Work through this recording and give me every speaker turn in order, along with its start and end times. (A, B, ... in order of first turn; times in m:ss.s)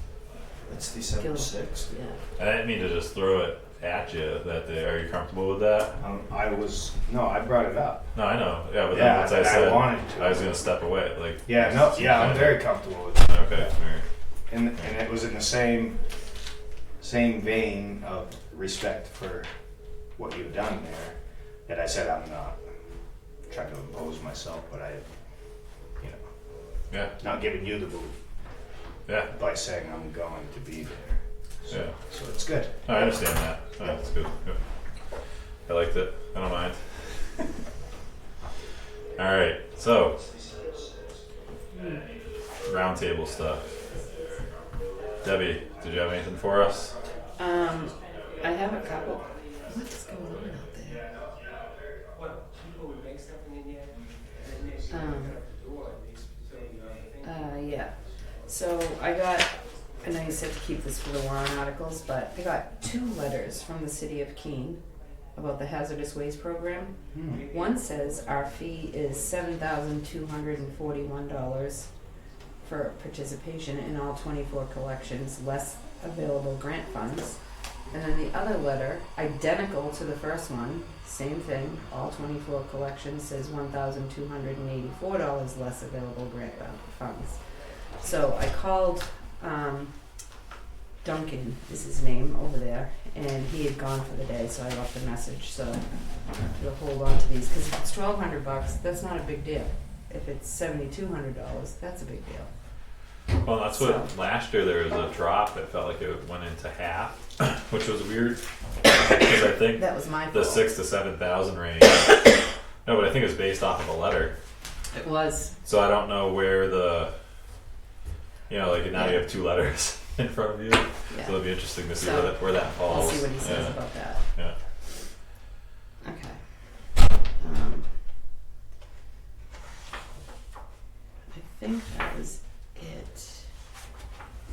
0:00.7-0:01.9 A
0:01.2-0:02.2 B
0:02.4-0:06.0 C
0:06.0-0:08.0 A
0:08.1-0:14.0 C
0:08.9-0:10.5 A
0:11.4-0:13.7 A
0:14.5-0:16.0 A
0:17.0-0:19.5 A
0:20.2-0:21.1 A
0:21.6-0:22.6 A
0:23.5-0:25.0 A
0:27.2-0:28.1 A
0:29.1-0:29.3 C
0:29.3-0:33.0 A
0:32.8-0:34.6 C
0:35.7-0:36.8 C
0:39.2-0:40.2 C
0:42.6-0:43.7 C
0:45.2-0:46.9 C
0:47.4-0:51.0 B
0:54.9-0:55.4 B
0:57.2-0:57.9 B
0:58.5-0:59.5 B
1:00.0-1:04.8 B
1:05.3-1:06.9 B
1:07.1-1:07.4 A
1:07.5-1:11.9 B
1:12.6-1:17.4 B
1:17.9-1:27.4 B
1:28.0-1:29.9 B
1:31.0-1:35.8 B
1:36.5-1:42.5 B
1:43.4-1:52.2 C
1:43.7-1:44.1 B
1:49.7-1:50.7 B
1:52.8-1:54.3 C
1:54.9-1:55.5 B
1:55.6-1:57.1 C
1:58.5-2:03.8 C
1:58.9-1:59.2 B
2:01.1-2:04.2 B
2:06.0-2:06.4 B
2:07.4-2:07.9 B
2:11.3-2:13.5 B